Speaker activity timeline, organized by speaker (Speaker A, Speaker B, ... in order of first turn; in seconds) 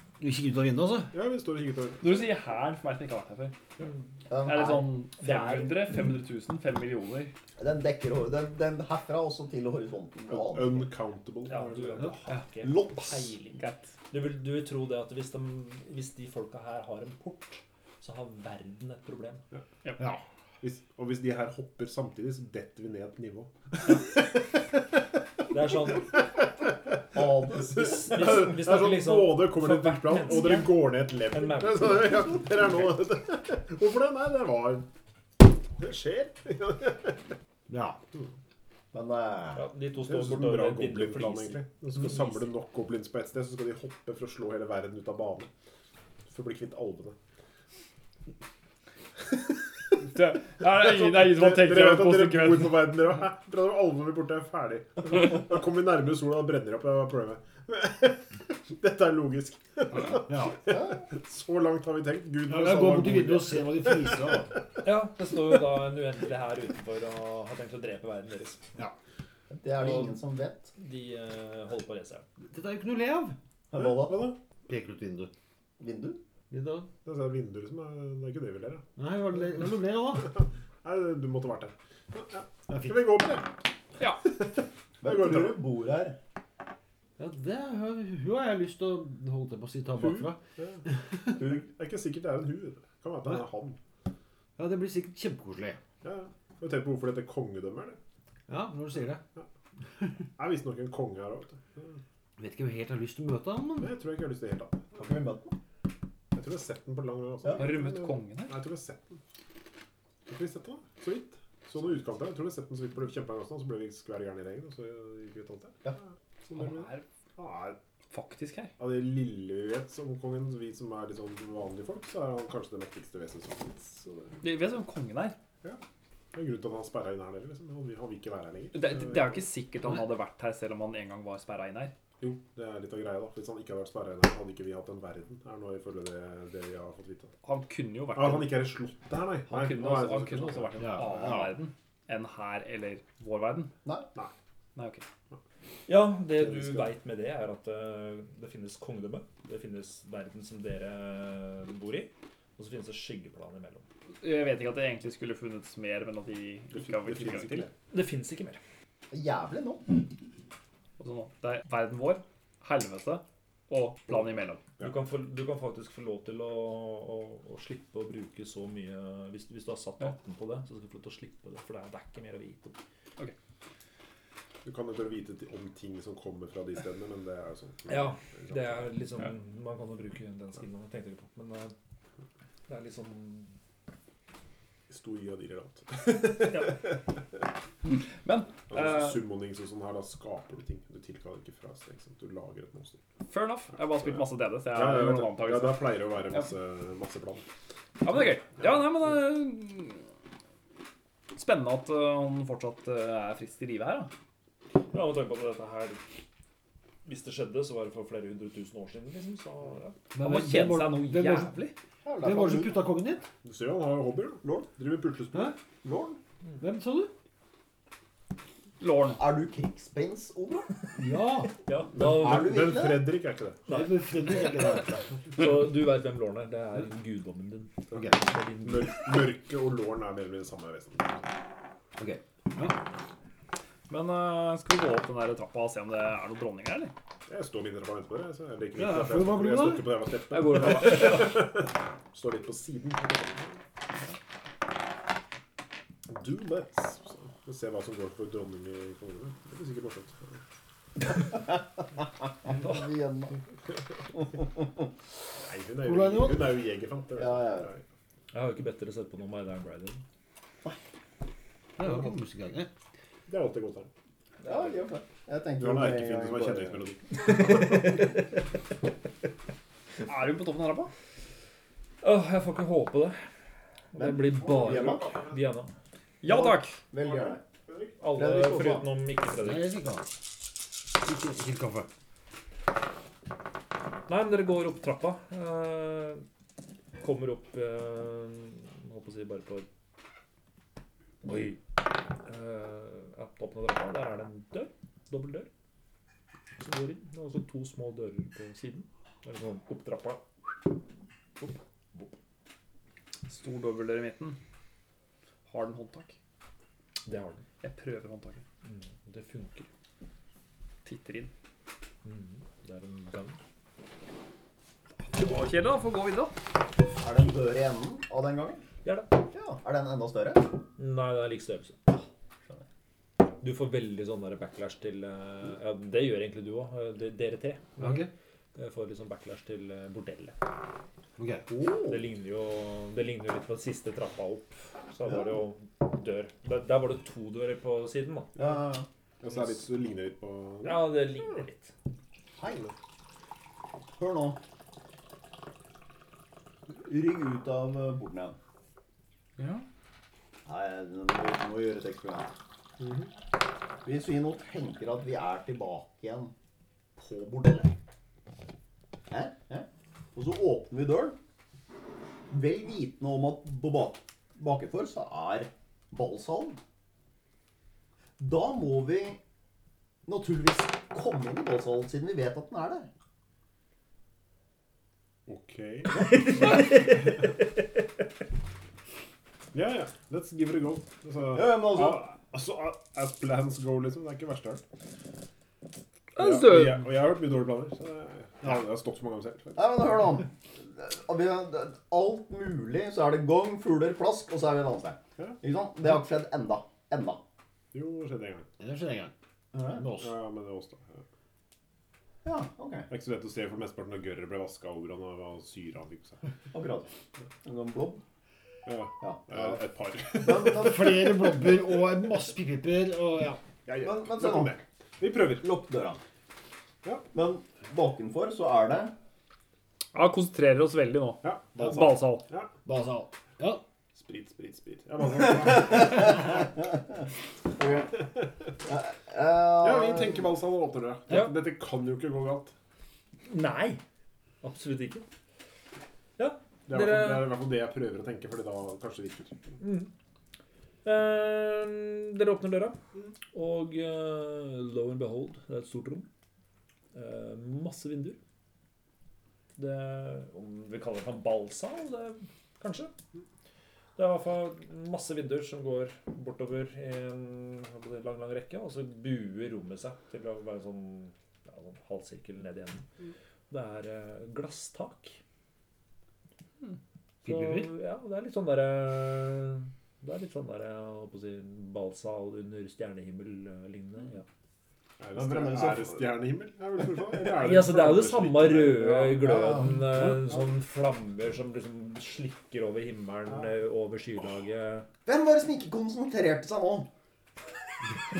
Speaker A: 0.2-1.1, 37.7-38.0, 60.2-60.6, 62.5-64.5, 72.5-73.3, 74.7-75.3, 76.5-76.9, 79.0-80.4, 82.7-83.0, 87.2-90.4, 94.6-95.8, 98.5-99.2, 102.4-103.9, 140.8-141.6, 210.1-211.6, 212.2-213.3, 216.6-217.1, 220.9-221.6, 223.7-225.1, 227.9-228.2, 232.0-232.8, 238.7-239.9, 255.8-256.5, 261.8-262.7, 279.4-280.1, 280.9-281.9, 327.8-328.1, 331.2-331.5, 398.6-399.1, 399.7-400.2, 410.4-413.4, 422.6-423.6, 467.2-467.7
Speaker B: 1.1-2.3, 10.3-12.1, 20.6-24.6, 27.8-34.9, 35.7-37.2, 40.1-45.5, 46.3-47.1, 50.6-64.3, 73.7-74.4, 77.0-78.8, 80.8-83.5, 84.2-85.6, 90.6-90.8, 91.4-93.8, 96.0-98.0, 100.4-102.0, 103.8-105.0, 106.3-109.2, 110.3-115.9, 116.4-117.8, 118.8-124.4, 126.3-129.4, 132.2-137.3, 138.1-140.8, 156.7-157.7, 174.6-178.9, 184.9-187.0, 188.7-193.0, 194.0-197.4, 213.4-215.6, 221.9-223.7, 228.6-231.3, 237.3-243.6, 246.1-250.4, 255.4-257.8, 263.3-263.9, 265.6-267.6, 274.4-275.4, 277.0-278.0, 339.2-341.0, 352.8-353.1, 375.2-376.7, 379.5-384.6, 386.2-389.7, 397.7-398.5, 400.0-401.0, 402.9-406.2, 408.6-410.6, 413.6-415.5, 421.2-422.5, 423.9-426.3, 429.6-432.5, 436.7-439.5, 475.0-479.2
Speaker C: 2.0-3.5, 4.4-7.3, 13.6-13.9, 50.0-52.9, 107.5-108.6, 116.5-117.0, 118.1-118.7, 124.4-125.4, 128.7-131.9, 137.4-138.6, 139.5-143.7, 144.7-145.0, 154.2-157.7, 161.0-164.6, 187.9-189.2, 193.3-196.5, 198.0-200.0, 201.3-204.1, 210.2-211.7, 218.8-219.2, 233.9-236.9, 240.3-241.3, 270.1-270.9, 276.2-276.8, 298.6-298.8, 303.2-304.4, 305.5-306.1, 307.6-308.4, 310.8-311.3, 315.1-316.3, 349.4-349.6, 386.1-386.9, 419.9-422.2
Speaker D: 4.3-5.5, 7.6-10.9, 12.6-13.3, 27.1-28.4, 38.9-39.6, 60.7-61.0, 69.5-70.7, 73.7-74.3, 75.8-76.2, 85.0-86.2, 91.4-91.6, 105.0-105.5, 159.1-160.0, 212.0-212.8, 214.4-214.7, 215.8-216.2, 219.1-220.8, 221.9-223.1, 252.4-253.4, 254.3-254.7, 257.1-257.7, 264.4-266.8, 273.9-275.1, 276.2-277.4, 278.1-278.9, 317.0-318.6, 319.3-320.6, 331.5-332.0, 338.4-338.9, 342.4-342.7, 343.9-344.4, 346.7-348.4, 350.4-352.3, 353.8-356.3, 357.0-357.8, 359.1-361.2, 362.3-366.6, 368.2-369.2, 370.1-372.9, 375.9-376.7, 381.3-382.1, 389.6-397.2, 399.5-399.9, 402.2-402.9, 406.5-406.9, 407.4-408.0, 409.0-409.6, 410.2-410.9, 413.8-414.6, 415.4-416.0, 417.1-418.9, 425.2-426.8, 427.5-428.1, 428.6-430.3, 475.1-476.1, 479.1-479.8, 485.1-486.9
Speaker E: 5.2-5.5, 11.5-19.4, 25.5-26.2, 27.7-32.4, 39.5-42.4, 64.8-68.6, 69.8-70.1, 70.8-72.2, 145.9-153.8, 157.9-158.6, 164.8-172.8, 177.9-181.7, 182.7-183.5, 204.9-206.0, 207.0-209.9, 221.6-222.6, 225.3-229.1, 258.3-260.0, 264.4-264.7, 267.3-268.1, 272.0-273.2, 273.9-275.7, 278.0-279.9, 284.1-286.2, 287.0-289.7, 291.2-291.6, 292.2-295.5, 296.6-300.2, 301.4-302.1, 307.0-307.4, 308.6-309.7, 312.0-313.4, 318.8-319.1, 320.8-322.0, 323.4-330.4, 331.8-338.4, 340.6-341.7, 376.3-377.1, 433.3-433.8, 434.4-435.0, 436.2-437.4, 439.6-439.9, 440.8-442.8, 443.3-446.1, 446.9-448.2, 449.6-452.9, 453.9-462.8, 463.5-465.2, 467.2-474.2, 477.2-484.9